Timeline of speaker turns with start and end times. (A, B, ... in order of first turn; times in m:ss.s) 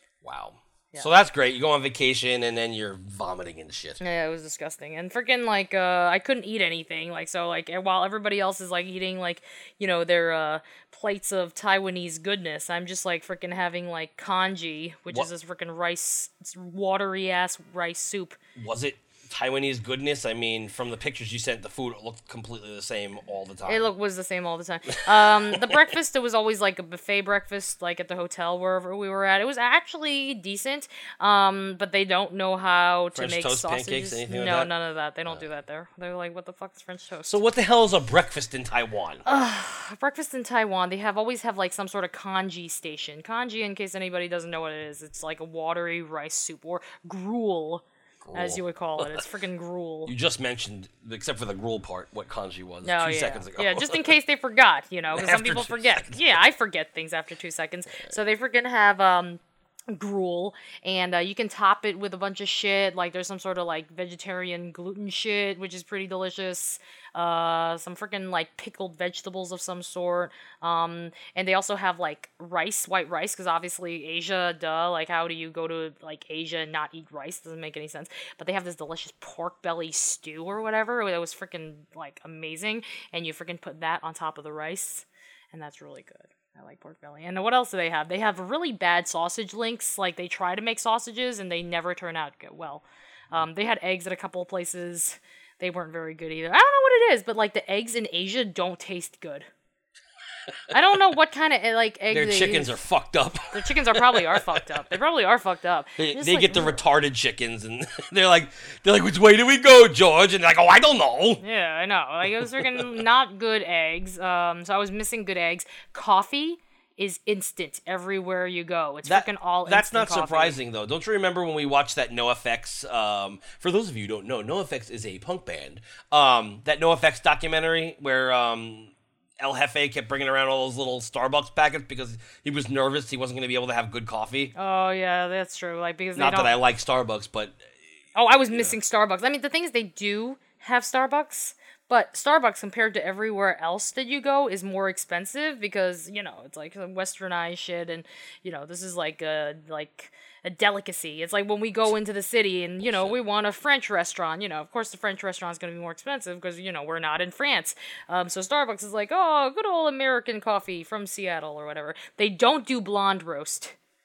0:00.2-0:04.0 A
0:04.0-0:18.4 B
0:18.6-0:23.9 A
0:23.7-0:37.4 B
0:25.1-0:25.9 A
0:33.1-0:34.7 A
0:37.2-0:39.2 A
0:39.2-0:50.1 B
0:48.2-0:49.2 A
0:50.1-0:54.0 A
0:52.8-0:59.4 B
0:55.1-0:56.3 A
0:59.9-1:39.5 B
1:40.7-1:42.8 B
1:42.1-1:44.6 A
1:43.5-1:46.8 B
1:46.0-1:51.4 A
1:51.4-2:00.6 B
1:59.0-2:14.5 A
2:14.6-2:16.6 B
2:16.2-2:17.6 A
2:18.2-2:43.8 B
2:32.8-2:33.2 A